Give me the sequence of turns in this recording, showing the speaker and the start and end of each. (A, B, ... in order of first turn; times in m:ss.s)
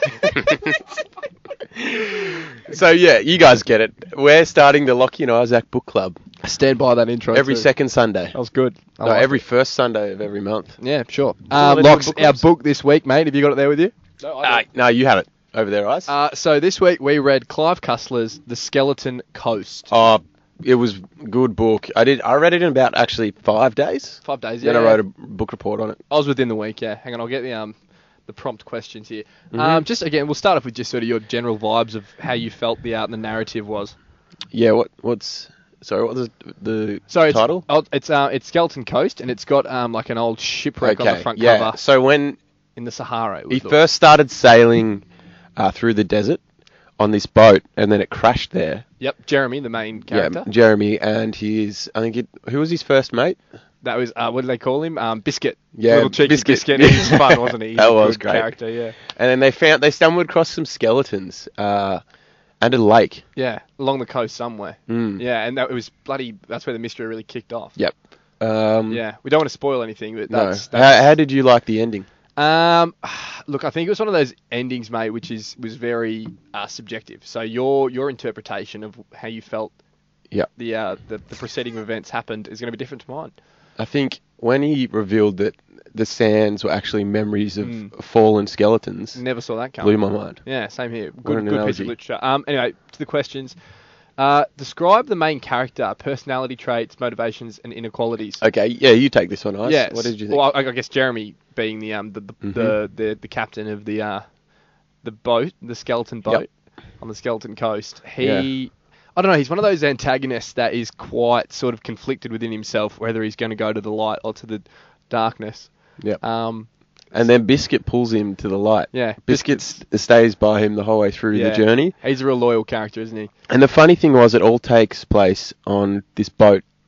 0:00.2-0:00.8 A
0:01.6-0:06.2 A
0:06.4-0:07.7 B
0:07.3-0:08.3 A
0:08.3-0:09.4 B
0:09.0-0:10.8 A
0:10.8-0:14.6 B
0:11.5-0:12.4 A
0:14.4-0:16.1 A
0:16.1-0:19.9 B
0:19.9-0:26.0 A
0:24.2-0:25.0 B
0:26.1-0:33.9 B
0:29.5-0:29.8 A
0:34.5-0:37.6 A
0:37.1-0:41.8 B
0:40.8-0:42.4 A
0:42.8-0:43.8 B
0:43.5-0:45.0 A
0:45.6-0:46.4 A
0:47.0-0:48.8 A
0:49.0-0:50.5 B
0:50.1-0:53.4 A
0:53.8-0:59.0 B
0:55.7-1:02.0 A
1:02.6-1:03.2 A
1:03.4-1:07.8 B
1:04.9-1:05.2 A
1:07.8-1:09.0 A
1:08.9-1:11.1 B
1:10.3-1:12.1 A
1:12.4-1:19.8 B
1:20.5-1:23.4 B
1:23.8-1:29.2 A
1:27.6-1:27.9 B
1:29.1-1:33.6 B
1:29.8-1:30.4 A
1:31.2-1:31.9 A
1:34.2-1:38.4 B
1:38.4-1:40.5 A
1:39.6-1:44.3 B
1:42.4-1:42.8 A
1:45.0-1:57.4 B
1:48.2-1:48.5 A
1:57.1-2:01.9 A
1:58.9-1:59.8 B
2:01.3-2:03.3 B
2:03.5-2:06.6 A